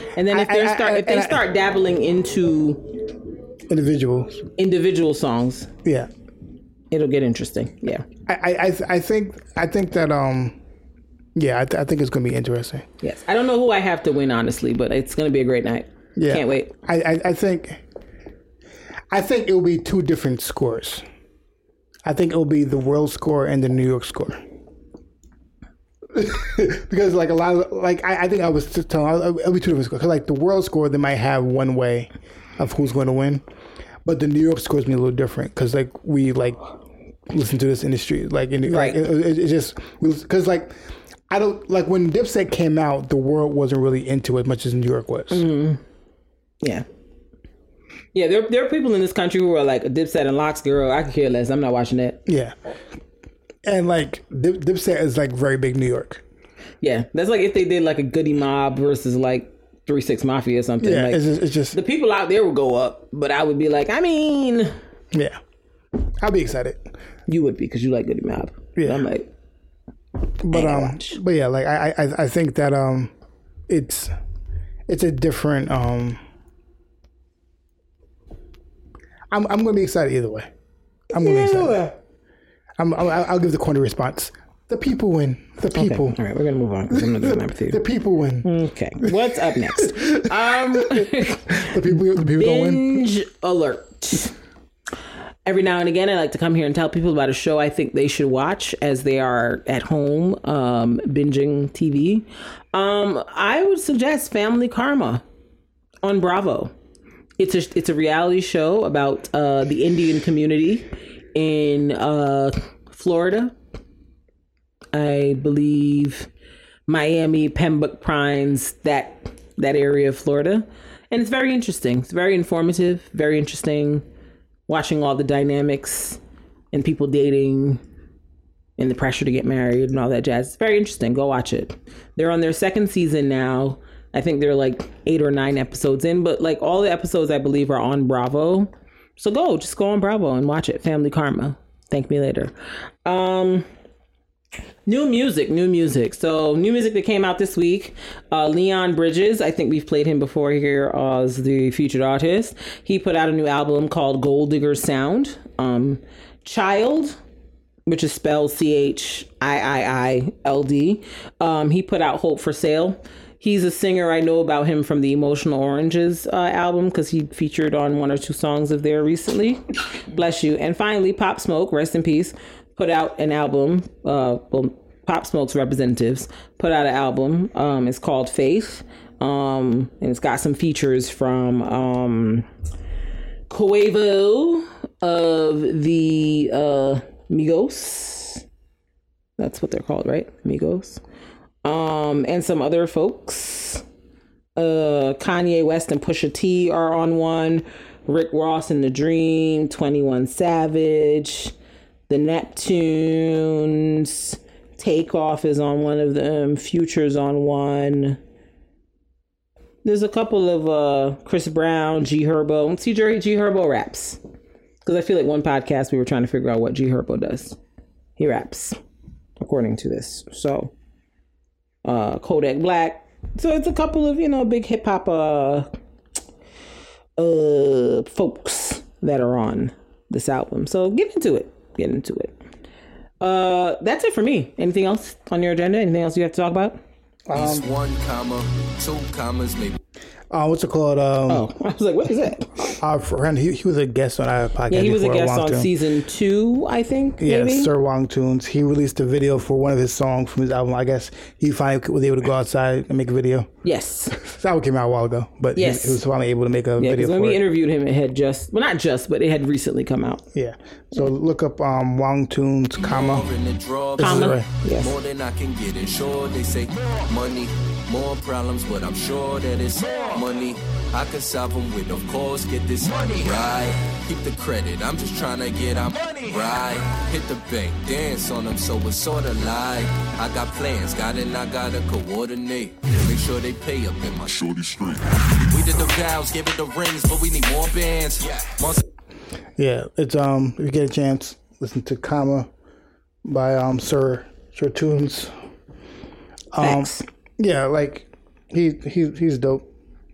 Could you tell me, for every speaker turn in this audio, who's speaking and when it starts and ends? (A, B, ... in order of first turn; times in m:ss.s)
0:00.1-0:03.0 A
0:00.3-0:01.4 B
0:03.7-0:04.5 B
0:04.6-0:05.7 A
0:05.8-0:06.1 B
0:06.9-0:08.0 A
0:08.2-0:10.6 B
0:11.4-0:12.8 B
0:13.0-0:16.7 A
0:16.2-0:17.8 B
0:19.1-0:21.0 B
0:22.0-0:24.4 B
0:26.1-0:33.4 B
0:34.0-0:36.6 B
0:37.3-0:40.8 B
0:38.7-0:39.0 A
0:41.3-0:45.5 B
0:45.3-0:45.8 A
0:48.1-0:52.2 A
0:52.2-0:52.6 B
0:53.6-0:56.2 B
0:56.8-1:04.7 A
1:00.8-1:01.8 B
1:05.1-1:05.4 B
1:06.2-1:06.9 B
1:07.3-1:09.3 A
1:08.8-1:09.0 B
1:10.4-1:13.1 B
1:10.5-1:11.2 A
1:13.7-1:14.2 B
1:14.9-1:16.2 B
1:19.3-1:20.5 B
1:21.1-1:21.8 B
1:21.1-1:21.9 A
1:22.8-1:26.2 B
1:25.7-1:27.8 A
1:26.9-1:29.2 B
1:28.4-1:34.3 A
1:29.8-1:33.0 B
1:35.4-1:45.2 A
1:46.0-1:46.7 A
1:47.4-1:53.5 A
1:54.9-1:56.3 A
1:56.9-2:04.0 A
2:04.7-2:06.2 A
2:06.7-2:07.8 A
2:08.8-2:22.5 A
2:23.0-2:23.7 A
2:24.8-2:37.2 A
2:37.9-3:02.5 A
3:03.5-3:08.4 A
3:09.4-3:11.0 A
3:11.6-3:13.8 A
3:14.6-3:21.5 A
3:22.1-3:28.2 A
3:29.8-3:34.2 A
3:34.8-3:37.6 A
3:38.2-3:38.8 A
3:39.4-3:40.7 A
3:41.8-3:45.7 A
3:47.2-3:52.4 A
3:53.2-3:56.8 A
3:57.3-3:57.7 B
3:57.3-3:59.8 C
4:00.3-4:01.5 B
4:01.3-4:02.8 A
4:02.8-4:05.7 B
4:04.7-4:07.7 A
4:07.2-4:13.5 B
4:13.6-4:14.1 A
4:14.1-4:17.4 B
4:15.5-4:16.0 A
4:16.8-4:20.2 A
4:20.3-4:23.3 B
4:22.8-4:48.8 C
4:24.0-4:24.5 B
4:24.0-4:24.9 A
4:49.6-4:52.5 B
4:53.2-4:55.3 B
4:56.5-4:59.7 B
4:56.6-4:57.0 A